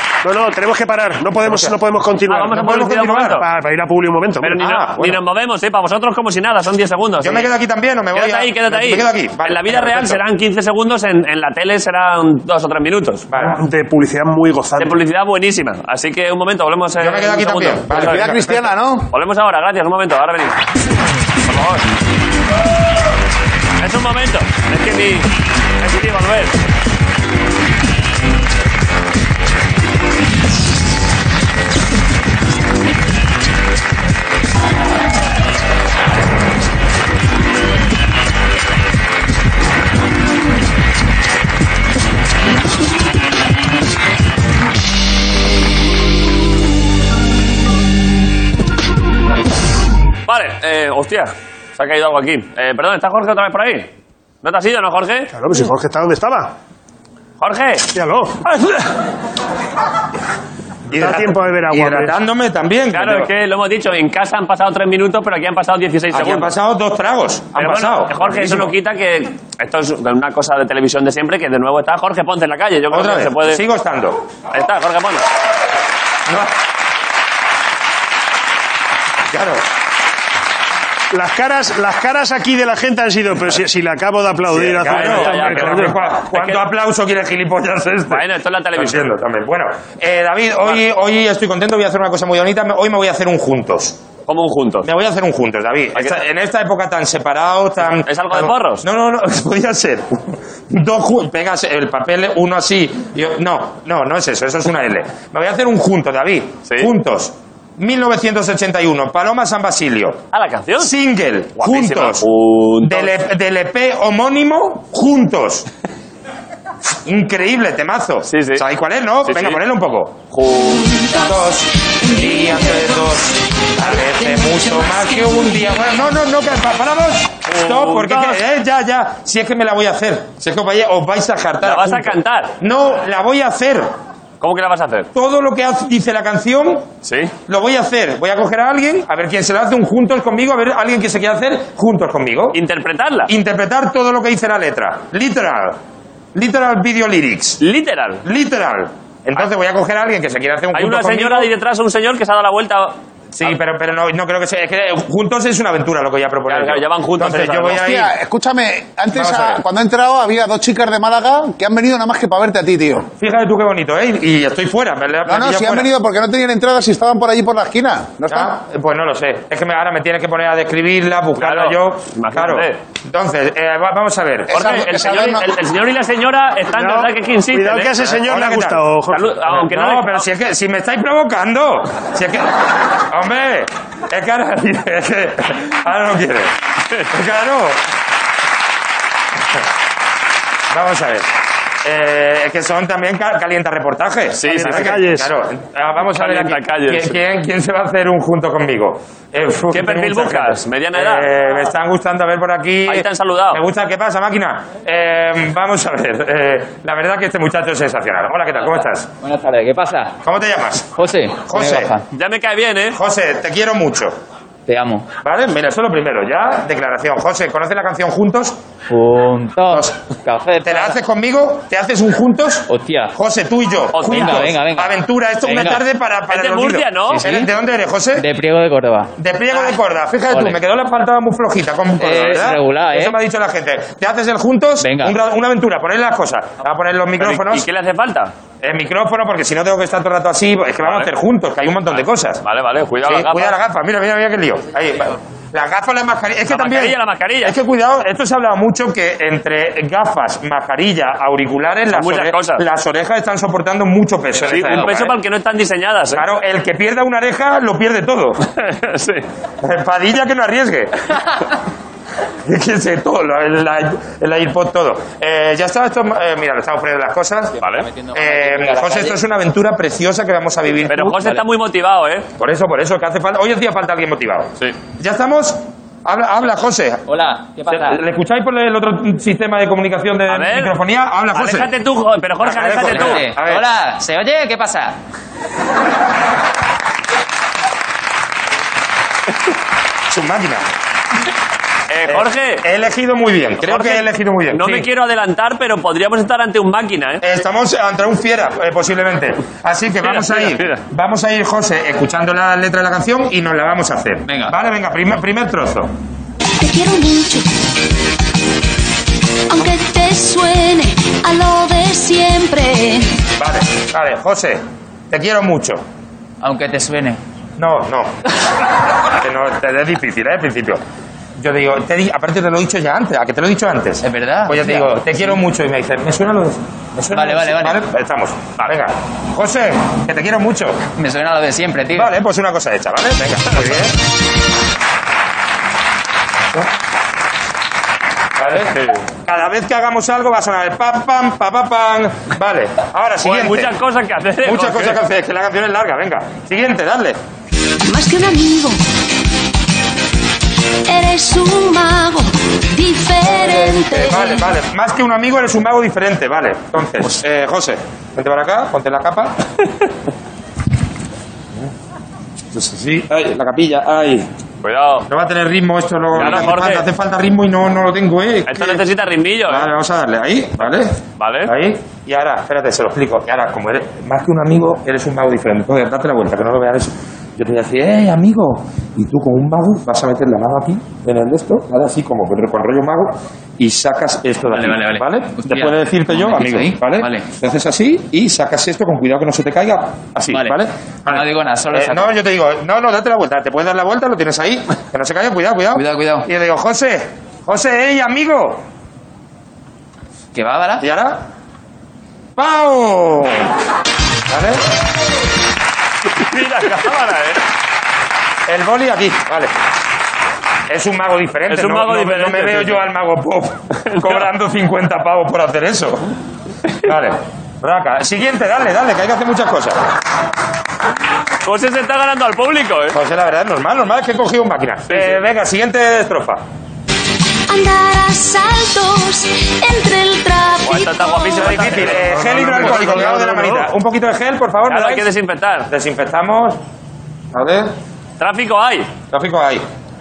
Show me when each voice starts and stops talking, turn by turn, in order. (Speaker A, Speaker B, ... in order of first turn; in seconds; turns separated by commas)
Speaker A: 0.2-2.6, Speaker B: 1.4-1.7, Speaker C: 2.3-3.4, Speaker B: 2.5-3.4, Speaker A: 3.4-4.6, Speaker C: 4.4-7.5, Speaker B: 4.6-5.2, Speaker B: 7.2-10.2, Speaker C: 8.1-13.2, Speaker B: 13.3-13.6, Speaker A: 13.3-15.0, Speaker C: 14.8-18.4, Speaker B: 17.0-18.7, Speaker D: 17.9-19.1, Speaker C: 19.1-20.6, Speaker C: 21.4-21.9, Speaker C: 23.8-25.3, Speaker C: 25.8-26.5, Speaker C: 50.3-53.9, Speaker C: 54.4-55.3, Speaker A: 55.3-56.5, Speaker C: 57.4-57.9, Speaker A: 57.9-58.5, Speaker A: 60.9-62.1, Speaker B: 60.9-63.3, Speaker C: 62.9-66.5, Speaker B: 66.1-68.7, Speaker C: 67.5-73.6, Speaker B: 72.9-74.2, Speaker C: 74.5-75.2, Speaker B: 79.3-79.6, Speaker A: 81.1-86.0, Speaker B: 84.5-88.2, Speaker C: 84.8-86.6, Speaker C: 88.1-89.1, Speaker B: 88.8-94.0, Speaker C: 94.3-94.9, Speaker B: 94.8-110.2, Speaker C: 97.8-98.8, Speaker C: 110.3-110.9, Speaker B: 110.8-112.2, Speaker C: 111.6-113.1, Speaker B: 112.8-115.7, Speaker B: 117.0-120.2, Speaker C: 118.3-118.6, Speaker C: 119.2-119.6, Speaker C: 120.3-120.8, Speaker E: 120.5-123.2, Speaker B: 121.2-133.9, Speaker E: 123.8-126.0, Speaker C: 127.5-128.4, Speaker C: 131.6-132.5, Speaker C: 134.4-135.1, Speaker B: 135.1-136.9, Speaker C: 137.0-137.3, Speaker B: 137.5-142.6, Speaker C: 142.5-143.3, Speaker B: 143.3-145.8, Speaker B: 146.3-147.6, Speaker C: 147.6-148.2, Speaker B: 148.2-151.5, Speaker C: 150.7-153.5, Speaker B: 153.4-158.1, Speaker C: 156.5-157.8, Speaker D: 157.8-163.1, Speaker B: 159.1-159.6, Speaker B: 163.2-165.9, Speaker D: 165.2-168.5, Speaker B: 168.3-174.5, Speaker C: 171.4-172.8, Speaker D: 174.5-175.4, Speaker C: 174.5-178.1, Speaker A: 176.7-179.3, Speaker B: 178.1-178.9, Speaker C: 179.1-180.2, Speaker B: 179.4-186.5, Speaker B: 187.1-187.8, Speaker B: 190.7-191.3, Speaker B: 191.8-209.1, Speaker C: 194.4-195.0, Speaker A: 194.5-195.3, Speaker C: 196.1-197.2, Speaker C: 199.7-201.3, Speaker C: 202.9-203.6, Speaker F: 209.2-210.2, Speaker B: 210.2-210.9, Speaker F: 210.9-212.0, Speaker B: 211.5-211.9, Speaker C: 212.1-213.0, Speaker B: 212.9-214.1, Speaker F: 214.7-215.1, Speaker B: 215.2-218.6, Speaker F: 218.9-221.0, Speaker B: 220.6-228.2, Speaker F: 222.7-223.1, Speaker C: 223.9-224.5, Speaker F: 224.1-225.8, Speaker C: 226.3-227.2, Speaker F: 227.1-227.5, Speaker F: 228.2-229.1, Speaker B: 229.2-237.6, Speaker F: 230.3-230.6, Speaker F: 232.0-233.2, Speaker F: 234.8-235.2, Speaker C: 237.2-238.3, Speaker B: 238.6-242.4, Speaker C: 240.8-241.1, Speaker C: 241.9-243.6, Speaker B: 243.0-255.1, Speaker C: 246.5-247.6, Speaker C: 251.9-252.6, Speaker C: 254.3-256.2, Speaker B: 256.1-258.4, Speaker C: 258.5-259.2, Speaker B: 259.6-261.1, Speaker B: 262.4-267.5, Speaker F: 267.6-269.2, Speaker B: 268.1-271.2, Speaker C: 270.9-272.3, Speaker F: 271.0-271.4, Speaker B: 272.4-277.0, Speaker F: 277.1-278.0, Speaker B: 277.7-281.7, Speaker C: 280.3-280.7, Speaker C: 281.3-283.2, Speaker B: 282.4-283.6, Speaker F: 282.8-284.9, Speaker B: 290.1-290.6, Speaker C: 291.9-292.6, Speaker B: 292.1-294.9, Speaker C: 293.6-297.2, Speaker B: 297.2-305.9, Speaker C: 300.0-300.8, Speaker F: 304.2-304.5, Speaker E: 306.6-307.5, Speaker E: 309.5-313.1, Speaker B: 313.4-315.8, Speaker F: 316.4-317.2, Speaker B: 317.6-318.1, Speaker B: 319.2-320.8, Speaker B: 321.4-330.8, Speaker F: 324.0-325.0, Speaker F: 327.1-327.8, Speaker F: 330.9-332.1, Speaker B: 331.9-333.9, Speaker B: 338.4-338.8, Speaker C: 338.6-339.0, Speaker B: 339.2-343.7, Speaker C: 343.2-345.0, Speaker B: 344.4-347.2, Speaker E: 347.8-348.8, Speaker E: 350.8-354.5, Speaker B: 353.2-359.3, Speaker B: 362.5-364.3, Speaker C: 364.6-365.1, Speaker B: 365.1-368.8, Speaker C: 366.1-366.9, Speaker C: 368.5-369.7, Speaker B: 369.5-398.6, Speaker C: 371.2-371.5, Speaker F: 384.5-387.3, Speaker F: 390.3-392.1, Speaker F: 395.7-396.3, Speaker F: 400.4-400.9, Speaker B: 400.8-401.2, Speaker B: 402.4-403.5, Speaker B: 404.3-404.6, Speaker C: 406.2-407.4, Speaker B: 408.5-409.5, Speaker B: 410.7-416.1, Speaker C: 411.5-412.9, Speaker C: 413.9-414.3, Speaker B: 416.8-419.8, Speaker C: 421.4-423.0, Speaker B: 422.9-426.4, Speaker C: 424.9-425.2, Speaker E: 427.5-431.6, Speaker C: 430.6-433.1, Speaker B: 431.4-435.1, Speaker A: 431.8-433.7, Speaker C: 434.7-435.7, Speaker B: 435.7-436.6, Speaker B: 437.3-437.7, Speaker C: 438.2-438.9, Speaker B: 439.1-439.6